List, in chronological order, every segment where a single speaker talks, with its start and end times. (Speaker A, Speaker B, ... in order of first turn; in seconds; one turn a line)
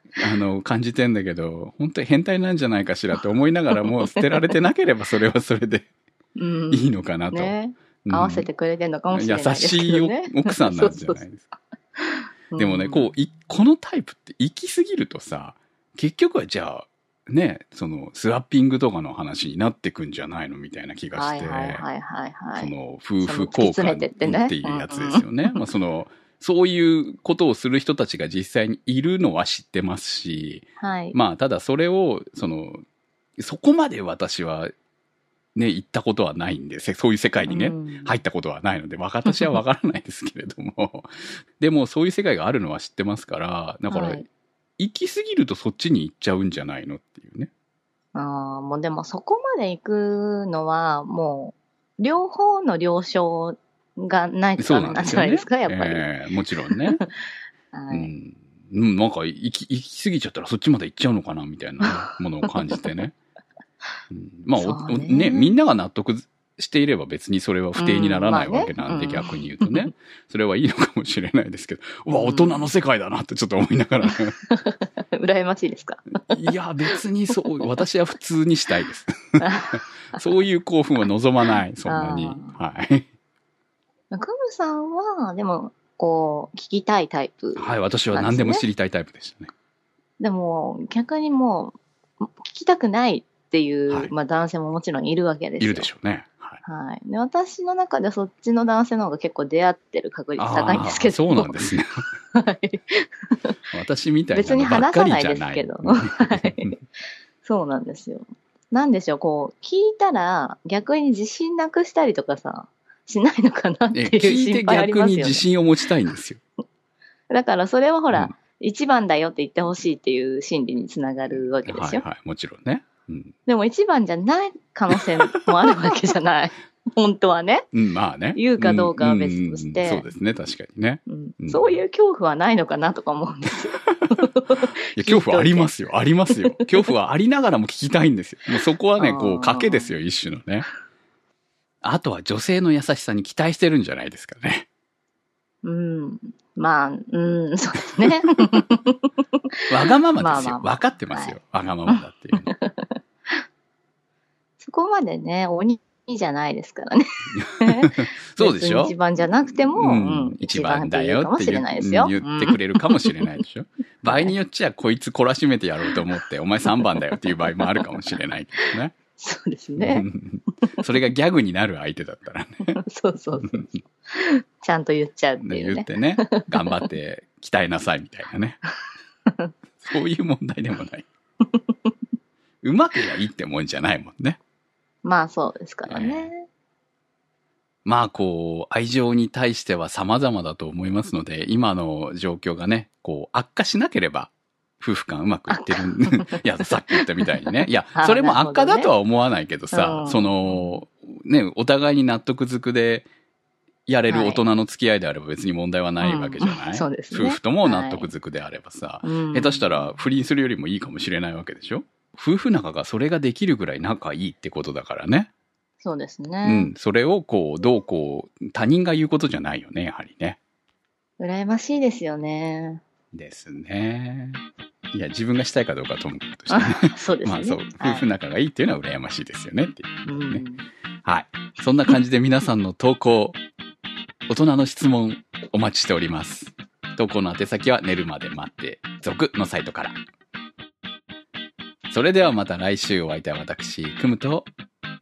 Speaker A: 0.2-5.9
Speaker B: 3.8-4.5
Speaker B: 6.4-11.2
Speaker A: 6.7-8.5
Speaker A: 9.1-11.5
Speaker B: 12.0-13.1
Speaker A: 12.6-21.9
Speaker B: 21.1-25.6
Speaker A: 22.6-32.8
Speaker B: 30.8-31.2
Speaker A: 33.4-34.7
Speaker A: 35.5-44.3
Speaker B: 37.5-38.1
Speaker B: 39.3-39.5
Speaker B: 43.9-44.2
Speaker A: 44.8-47.5
Speaker B: 48.1-56.1
Speaker A: 54.6-57.0
Speaker B: 56.7-57.1
Speaker B: 57.7-58.1
Speaker A: 57.9-63.1
Speaker A: 64.1-74.3
Speaker B: 64.6-65.5
Speaker B: 67.8-69.9
Speaker B: 72.1-72.7
Speaker B: 74.5-76.0
Speaker A: 76.3-83.0
Speaker B: 79.4-80.2
Speaker B: 81.8-82.5
Speaker B: 84.1-88.6
Speaker A: 87.5-89.5
Speaker B: 90.2-95.9
Speaker A: 95.6-96.6
Speaker B: 96.6-101.5
Speaker A: 100.4-102.0
Speaker B: 102.3-103.5
Speaker A: 103.7-106.7
Speaker B: 104.3-106.8
Speaker B: 107.4-115.5
Speaker A: 113.9-116.4
Speaker B: 117.3-122.0
Speaker A: 121.7-123.3
Speaker B: 123.5-127.6
Speaker A: 127.7-131.8
Speaker B: 128.3-130.1
Speaker B: 131.1-135.7
Speaker A: 134.6-140.7
Speaker B: 136.4-136.7
Speaker B: 139.0-139.9
Speaker A: 141.8-144.7
Speaker B: 145.6-149.1
Speaker A: 149.7-152.5
Speaker B: 150.2-151.3
Speaker B: 151.9-152.9
Speaker B: 154.6-163.4
Speaker A: 157.3-159.0
Speaker A: 159.5-168.9
Speaker B: 164.1-164.3
Speaker B: 165.9-166.2
Speaker B: 166.8-167.9
Speaker B: 169.2-170.1
Speaker A: 169.8-172.8
Speaker B: 172.7-176.7
Speaker A: 175.4-178.6
Speaker A: 179.8-181.1
Speaker A: 182.6-184.4
Speaker B: 185.0-186.4
Speaker A: 185.9-186.3
Speaker A: 187.8-203.1
Speaker B: 195.5-198.9
Speaker B: 199.7-200.8
Speaker A: 203.9-215.3
Speaker B: 204.1-204.4
Speaker B: 206.0-208.1
Speaker B: 209.0-209.8
Speaker B: 215.8-216.7
Speaker A: 216.4-220.4
Speaker B: 221.2-222.8
Speaker A: 223.1-224.4
Speaker A: 224.9-230.4
Speaker B: 226.5-228.1
Speaker B: 230.1-230.7
Speaker A: 231.0-233.4
Speaker A: 234.3-240.0
Speaker A: 241.9-244.5